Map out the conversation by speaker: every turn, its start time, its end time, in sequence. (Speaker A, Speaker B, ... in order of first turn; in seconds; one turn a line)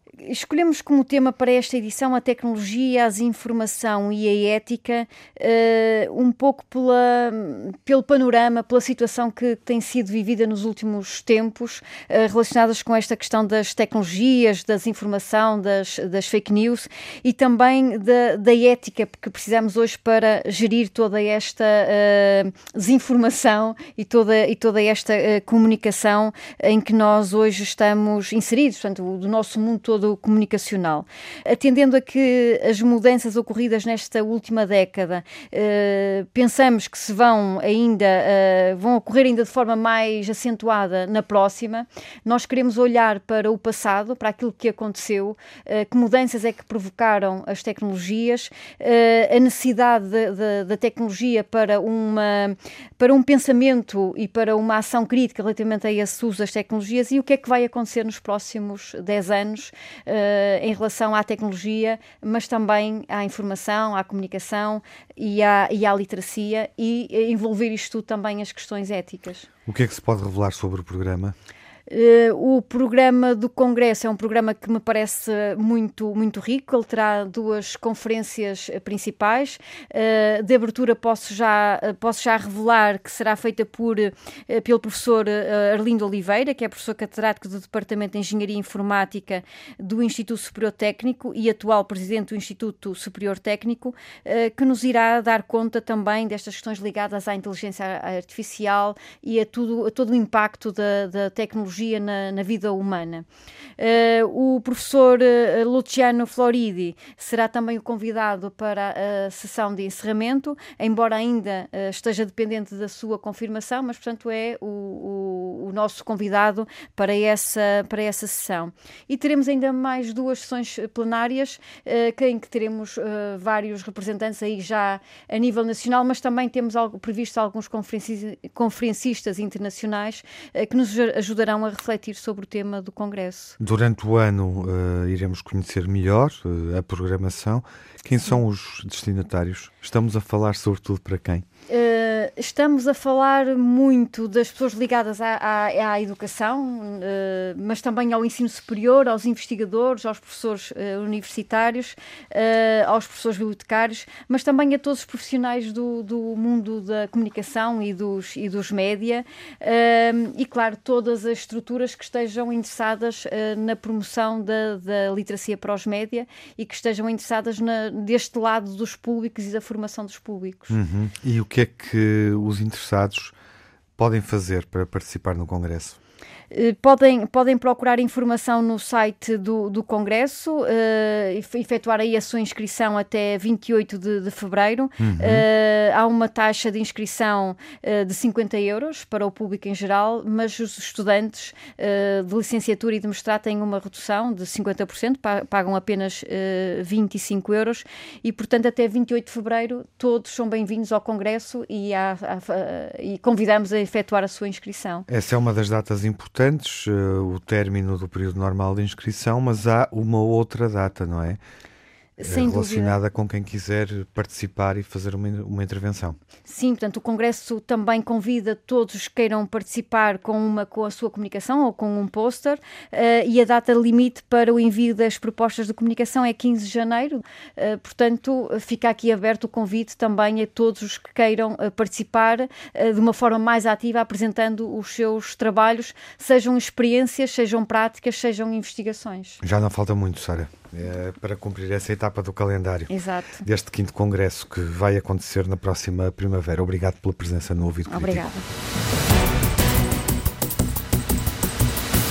Speaker A: 0.2-69.5
Speaker B: 69.7-71.3
Speaker A: 71.9-103.2
Speaker A: 103.8-133.6
Speaker B: 133.6-141.4
Speaker A: 141.7-170.8
Speaker B: 170.7-173.3
Speaker B: 174.0-175.9
Speaker A: 176.5-205.1
Speaker B: 185.0-185.4
Speaker B: 205.1-211.4
Speaker A: 212.2-212.9
Speaker B: 212.2-216.2
Speaker A: 216.4-239.4
Speaker B: 239.4-242.9
Speaker A: 242.9-243.4
Speaker B: 243.4-248.2
Speaker A: 247.9-248.4